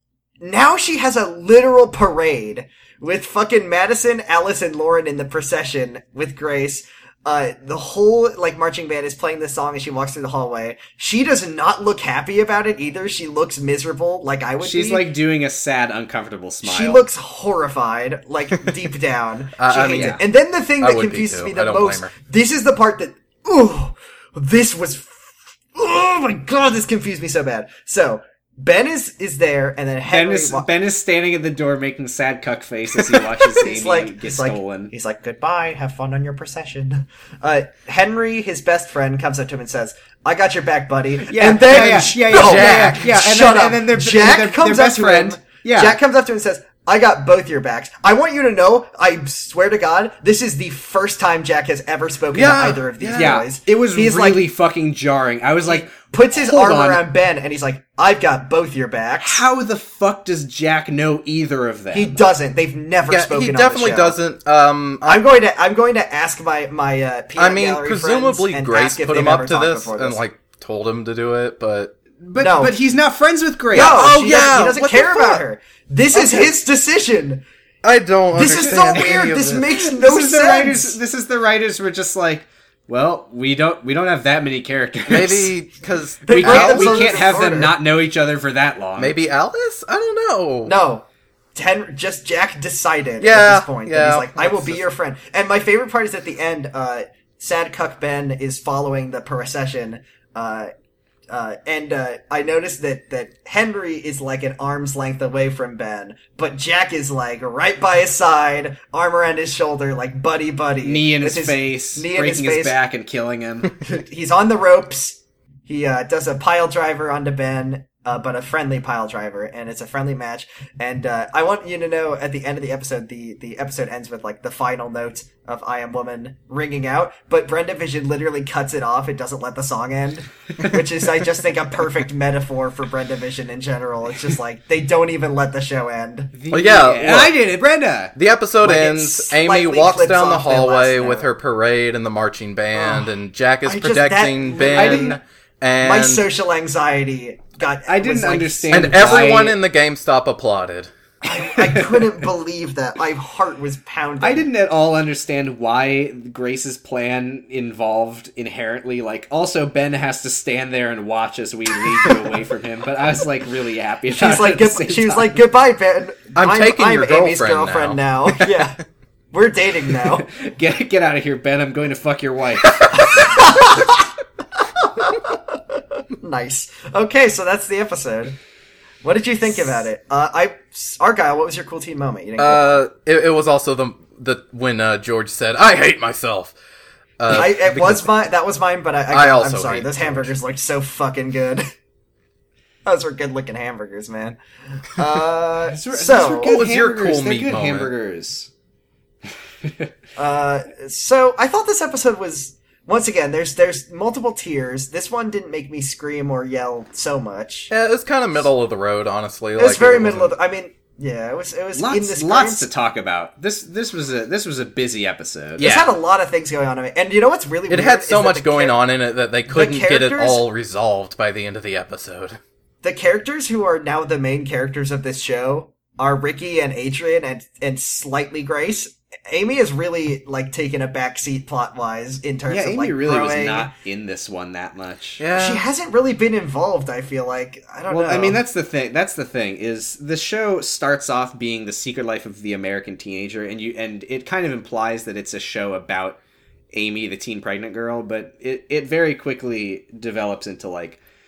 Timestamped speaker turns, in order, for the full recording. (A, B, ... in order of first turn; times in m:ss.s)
0:00.4-0:15.1 A
0:14.6-0:17.1 B
0:16.6-0:30.7 A
0:19.6-0:20.2 C
0:19.9-0:20.2 B
0:20.8-0:22.1 C
0:30.1-0:34.9 B
0:33.1-0:54.4 A
0:41.3-0:46.0 B
0:42.3-0:43.1 C
0:52.3-0:53.4 C
0:53.2-0:57.0 B
0:55.7-0:59.5 A
0:59.2-1:02.2 B
1:01.9-1:04.2 A
1:03.1-1:05.2 C
1:05.0-1:10.2 A
1:07.4-1:12.0 C
1:12.2-1:14.3 B
1:12.4-1:12.8 A
1:13.7-1:17.4 A
1:13.7-1:15.4 C
1:16.1-1:16.5 C
1:17.8-1:19.7 C
1:18.3-1:21.0 A
1:18.4-1:25.5 B
1:25.1-1:27.4 C
1:26.2-1:27.8 A
1:26.3-1:29.2 B
1:29.0-1:30.8 C
1:30.7-1:40.7 A
1:33.2-1:34.8 C
1:41.3-1:52.8 A
1:50.8-1:53.7 B
1:53.8-2:16.3 A
2:16.3-2:18.1 B
2:16.5-2:17.4 C
2:18.2-2:26.2 C
2:18.6-2:21.3 A
2:22.7-2:25.2 A
2:24.6-2:25.2 B
2:25.8-2:29.4 A
2:27.9-2:29.6 B
2:28.7-2:30.9 C
2:31.2-2:34.5 A
2:31.5-2:32.1 B
2:34.2-2:45.4 B
2:44.1-2:48.8 A
2:46.4-2:48.6 C
2:49.3-2:50.3 A
2:50.0-2:53.4 B
2:52.8-2:54.0 A
2:54.8-2:58.4 A
2:59.0-3:02.8 A
3:02.4-3:06.6 C
3:07.2-3:08.1 C
3:07.3-3:11.6 A
3:09.1-3:10.3 C
3:12.8-3:16.5 A
3:15.7-3:18.5 B
3:16.4-3:17.9 C
3:19.6-3:19.9 B
3:20.2-3:27.7 A
3:27.7-3:30.3 C
3:29.6-3:32.7 A
3:31.7-3:35.7 B
3:35.6-3:35.9 C
3:35.6-3:38.8 A
3:37.7-3:42.4 C
3:39.5-3:40.4 A
3:42.8-3:53.7 A
3:52.5-3:55.2 B
3:55.2-3:55.6 C
3:55.4-3:58.4 A
3:57.9-4:06.2 B
4:06.7-4:11.0 B